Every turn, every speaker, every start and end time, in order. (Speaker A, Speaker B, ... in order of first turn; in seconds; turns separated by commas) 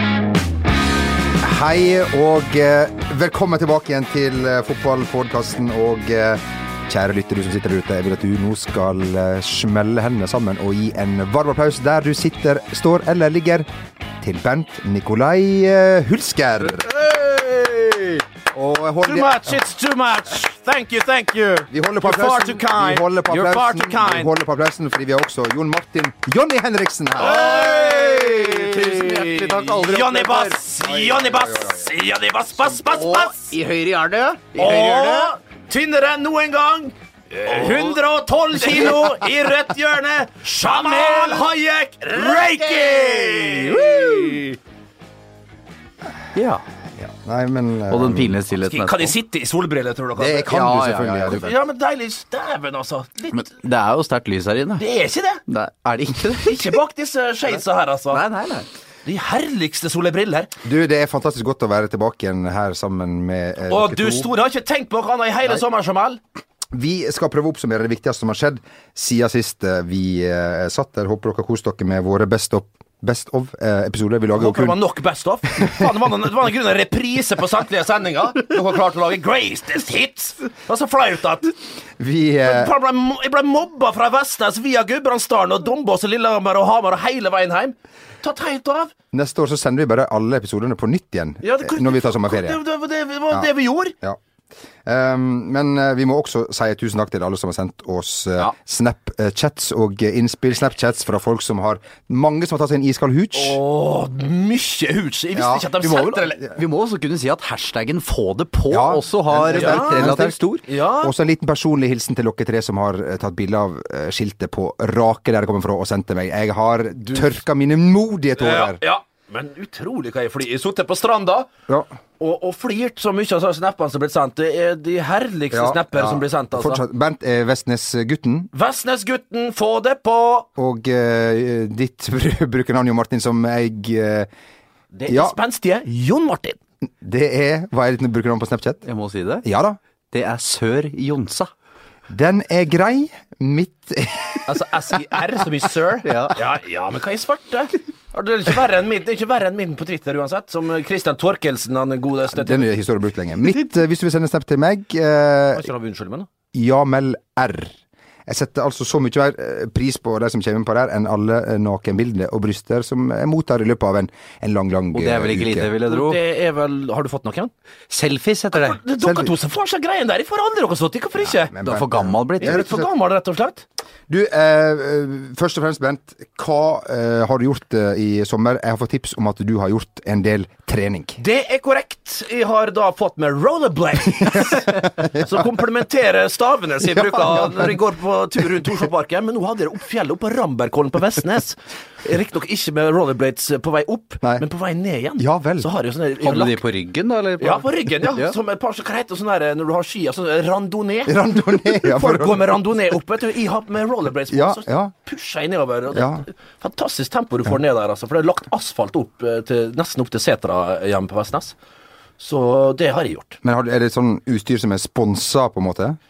Speaker A: 1.4-13.7, Speaker A: 14.2-16.9, Speaker B: 17.0-18.0, Speaker A: 18.5-19.6, Speaker B: 19.0-24.3, Speaker A: 21.7-27.5, Speaker B: 27.2-33.5, Speaker C: 27.3-30.6, Speaker A: 30.8-31.9, Speaker C: 32.8-35.3, Speaker B: 34.5-44.5, Speaker C: 37.5-37.8, Speaker C: 40.7-41.5, Speaker C: 42.2-44.5, Speaker C: 46.4-46.6, Speaker A: 47.0-48.4, Speaker C: 47.9-49.2, Speaker B: 48.6-50.6, Speaker A: 50.2-51.5, Speaker C: 50.5-51.5, Speaker B: 51.3-53.5, Speaker C: 53.3-54.9, Speaker B: 54.8-55.4, Speaker C: 55.5-56.8, Speaker B: 56.4-58.2, Speaker C: 58.1-58.7, Speaker B: 59.1-60.5, Speaker A: 60.6-64.3, Speaker B: 63.7-66.2, Speaker A: 66.7-74.8, Speaker B: 74.4-81.5, Speaker A: 82.0-82.7, Speaker B: 82.4-88.9, Speaker A: 89.1-92.6, Speaker B: 91.4-93.9, Speaker A: 94.8-103.6, Speaker B: 103.3-106.4, Speaker A: 105.4-105.6, Speaker C: 105.8-110.6, Speaker A: 108.7-110.4, Speaker B: 109.5-111.1, Speaker A: 111.0-118.8, Speaker B: 118.4-121.5, Speaker B: 122.2-126.8, Speaker A: 125.5-128.5, Speaker B: 128.5-130.5, Speaker A: 130.6-134.3, Speaker B: 134.9-136.6, Speaker A: 135.1-135.4, Speaker A: 137.0-138.8, Speaker C: 138.8-139.4, Speaker A: 139.4-139.8, Speaker C: 140.1-141.5, Speaker A: 142.1-144.4, Speaker B: 144.5-152.7, Speaker C: 146.1-146.4, Speaker A: 152.3-155.7, Speaker B: 155.5-156.3, Speaker A: 156.5-157.8, Speaker A: 158.3-165.7, Speaker C: 164.9-166.2, Speaker B: 165.9-167.5, Speaker C: 167.9-168.8, Speaker B: 168.5-171.6, Speaker A: 169.0-169.3, Speaker A: 171.3-172.9, Speaker C: 171.6-172.7, Speaker B: 172.4-173.6, Speaker A: 174.1-181.2, Speaker B: 181.2-196.6, Speaker A: 184.3-185.2, Speaker A: 186.9-187.7, Speaker A: 195.2-195.7, Speaker C: 196.2-198.3, Speaker B: 197.4-211.6, Speaker A: 201.1-202.6, Speaker A: 204.3-204.9, Speaker A: 205.9-206.2, Speaker B: 212.2-213.4, Speaker A: 213.4-216.0